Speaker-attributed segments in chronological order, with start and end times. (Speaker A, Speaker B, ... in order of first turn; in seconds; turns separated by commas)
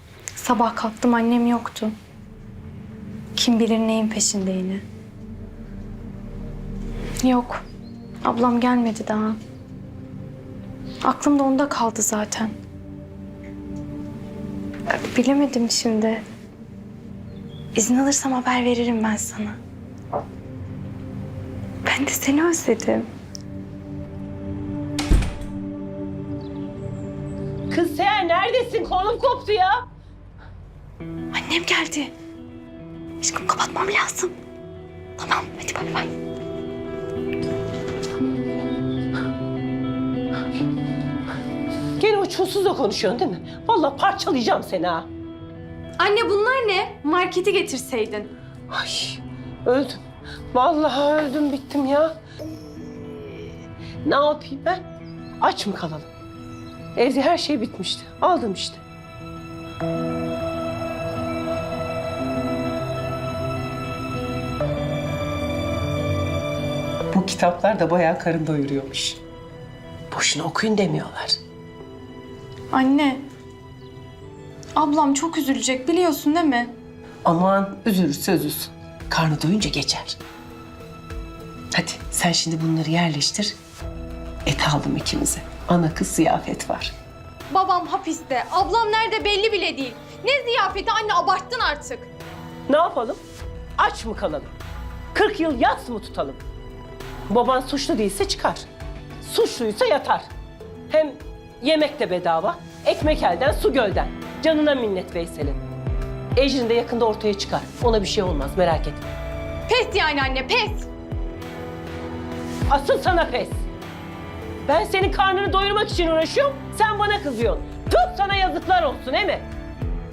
Speaker A: 0.4-1.9, Speaker A: 3.3-4.8, Speaker A: 7.2-7.6, Speaker A: 8.2-9.4, Speaker A: 11.0-12.5, Speaker A: 14.9-16.2, Speaker A: 17.7-19.6, Speaker A: 21.8-23.1, Speaker B: 27.7-29.7, Speaker A: 31.3-32.1, Speaker A: 33.2-34.3, Speaker A: 35.2-36.1, Speaker B: 42.0-45.0, Speaker C: 46.0-48.1, Speaker A: 46.0-48.3, Speaker B: 48.7-52.1, Speaker B: 54.0-54.8, Speaker B: 55.4-56.1, Speaker B: 57.0-58.8, Speaker B: 67.1-69.2, Speaker B: 70.1-71.4, Speaker A: 72.7-73.2, Speaker A: 74.8-76.7, Speaker B: 77.2-80.2, Speaker B: 81.7-83.5, Speaker B: 84.5-86.9, Speaker C: 87.5-91.9, Speaker A: 88.0-92.0, Speaker B: 92.7-93.2, Speaker B: 93.8-94.5, Speaker B: 95.1-96.4, Speaker B: 97.3-98.7, Speaker B: 99.2-100.3, Speaker B: 100.9-105.6, Speaker B: 106.3-109.0, Speaker C: 109.7-110.7, Speaker A: 109.8-110.8, Speaker B: 112.7-113.6, Speaker B: 114.6-119.5